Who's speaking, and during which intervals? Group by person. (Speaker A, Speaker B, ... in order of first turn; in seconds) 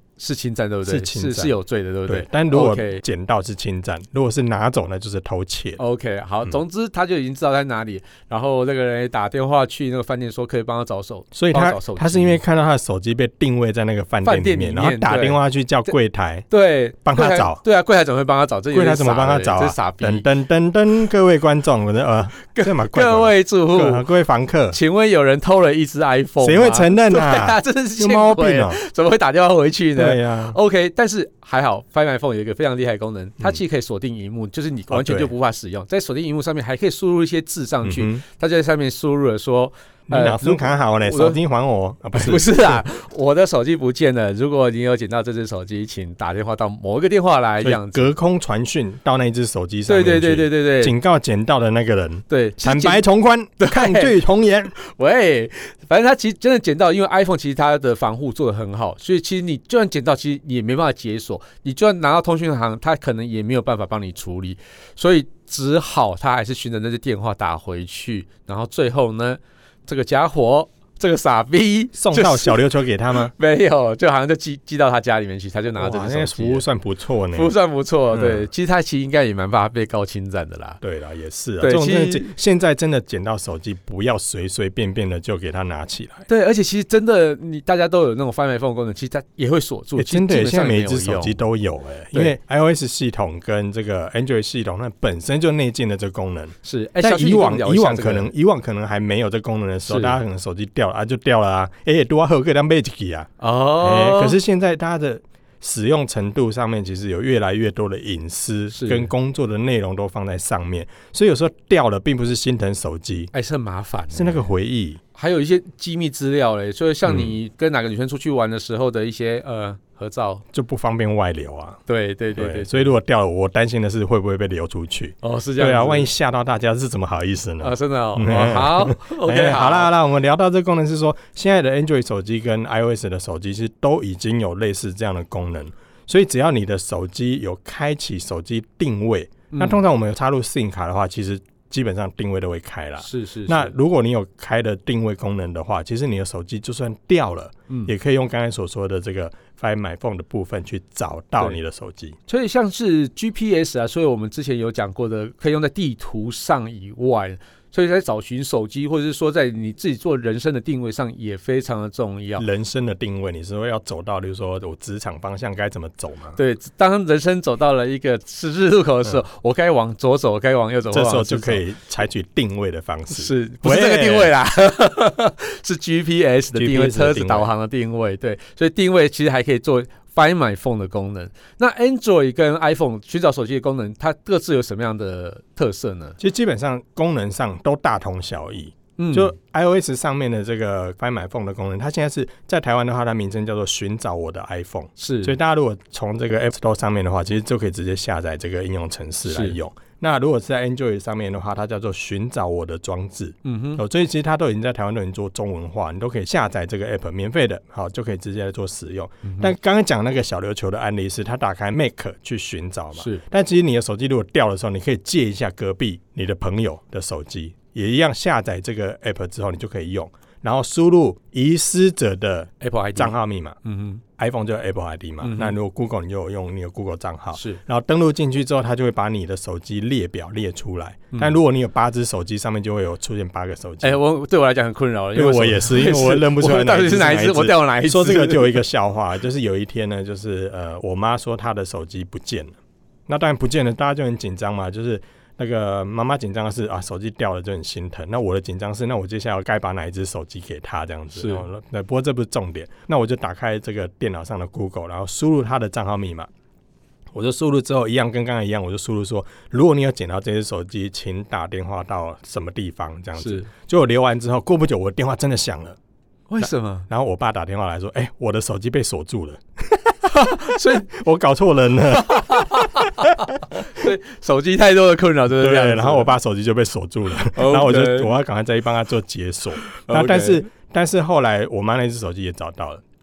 Speaker A: 0.2-3.0, 5.8-12.4, 14.2-15.9, 16.5-20.3, 22.5-24.1, 24.7-41.4, 42.1-48.1, 49.9-50.9, 52.3-53.0, 53.6-54.1, 54.7-72.6, 73.2-76.7, 77.3-80.8, 81.6-82.3, 86.3-91.4, 96.7-98.3, 99.9-100.2, 103.4-104.4, 108.7-109.1, 113.3-114.4, 115.1-120.4, 121.9-122.9, 125.2-126.1, 127.6-129.9, 139.5-139.8, 143.0-143.7, 152.3-162.4, 166.4-171.7, 173.1-186.2, 189.0-189.3, 195.0-195.3, 199.2-199.6, 203.4-203.8, 209.2-209.5, 213.0-213.2, 222.6-224.0, 225.2-225.6, 227.3-227.6, 231.1-231.4, 233.8-238.6, 251.1-251.4, 263.2-263.5, 266.3-266.9, 270.1-270.9, 272.0-276.1, 277.3-278.1, 279.7-280.5
Speaker B: 0.8-1.5, 2.1-5.8, 11.3-16.5, 17.0-17.6, 18.7-24.8, 26.4-28.8, 29.9-30.6, 34.9-35.3, 37.8-38.2, 40.1-42.9, 47.6-54.7, 72.0-73.3, 75.8-77.5, 78.1-78.5, 80.8-86.2, 90.0-113.3, 114.1-115.0, 117.1-117.3, 120.5-121.8, 122.3-152.2, 162.4-166.4, 170.9-174.3, 176.5-177.5, 186.2-223.6, 224.2-234.0, 235.2-242.5, 243.1-256.3, 257.1-265.8, 266.4-273.1, 275.3-282.8